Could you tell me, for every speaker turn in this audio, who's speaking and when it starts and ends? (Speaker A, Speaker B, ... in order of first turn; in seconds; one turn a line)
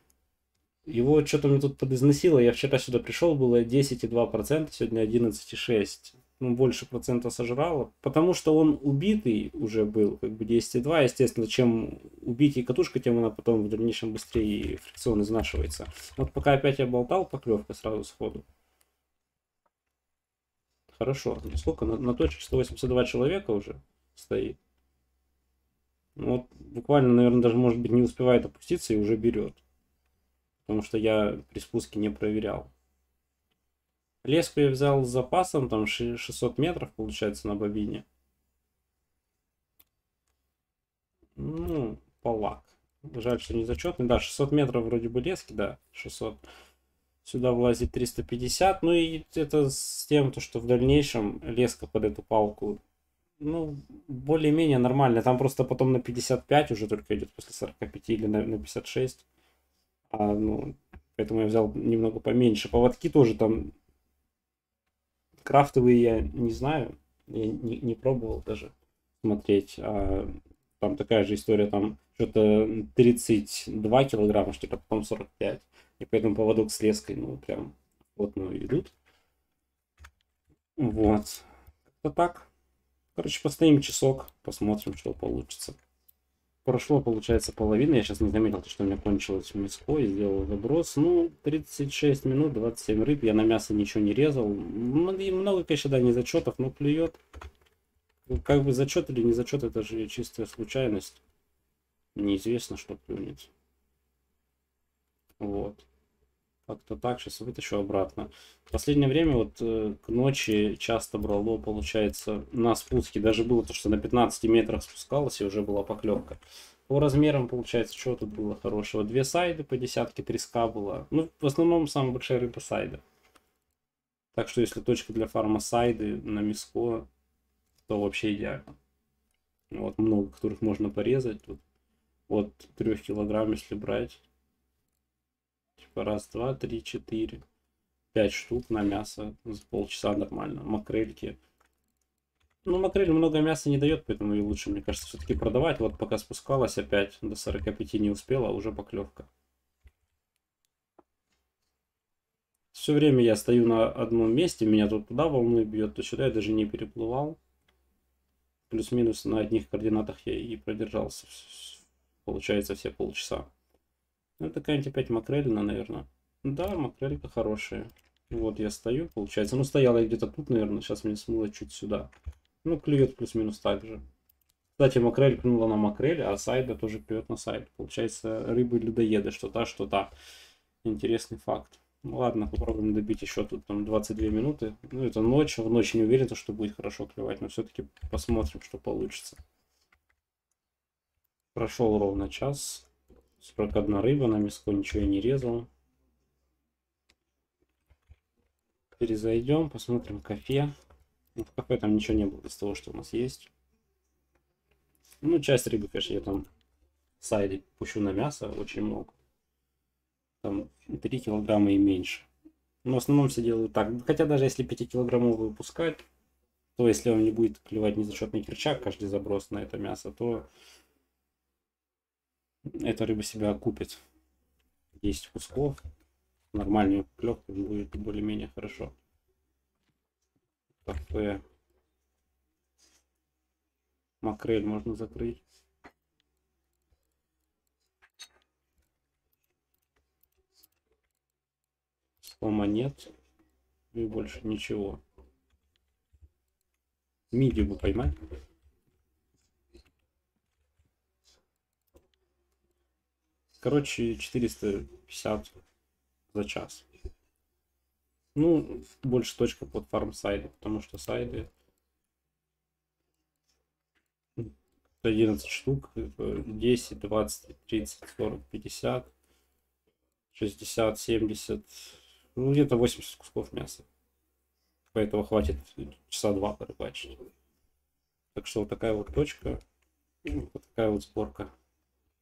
Speaker A: 0.8-18.4
Speaker A: 20.9-24.6
Speaker A: 26.1-29.6
Speaker A: 30.6-32.7
Speaker A: 34.2-38.0
Speaker A: 41.4-46.4
Speaker A: 47.2-52.8
Speaker A: 53.4-59.2
Speaker A: 60.1-63.7
Speaker A: 65.4-78.9
Speaker A: 80.8-82.5
Speaker A: 83.1-85.8
Speaker A: 86.6-97.2
Speaker A: 98.2-101.2
Speaker A: 102.1-103.5
Speaker A: 105.4-105.8
Speaker A: 106.7-123.0
Speaker A: 124.3-127.1
Speaker A: 127.9-128.8
Speaker A: 129.7-131.6
Speaker A: 132.3-134.2
Speaker A: 135.8-137.4
Speaker A: 138.1-141.4
Speaker A: 142.6-149.3
Speaker A: 152.7-157.4
Speaker A: 158.7-163.5
Speaker A: 164.4-172.1
Speaker A: 172.6-174.0
Speaker A: 174.8-180.1
Speaker A: 180.8-189.4
Speaker A: 191.5-192.9
Speaker A: 193.4-195.7
Speaker A: 198.9-200.7
Speaker A: 201.3-203.5
Speaker A: 205.2-206.5
Speaker A: 207.2-209.1
Speaker A: 210.4-212.3
Speaker A: 212.8-216.0
Speaker A: 216.8-220.5
Speaker A: 222.8-224.0
Speaker A: 225.0-225.8
Speaker A: 226.5-228.9
Speaker A: 230.8-231.4
Speaker A: 234.2-235.4
Speaker A: 242.2-243.1
Speaker A: 243.9-245.0
Speaker A: 247.3-248.1
Speaker A: 253.6-255.5
Speaker A: 256.3-256.9
Speaker A: 258.3-261.5
Speaker A: 264.4-269.1
Speaker A: 270.3-273.9
Speaker A: 274.9-277.1
Speaker A: 278.3-279.6
Speaker A: 280.2-281.5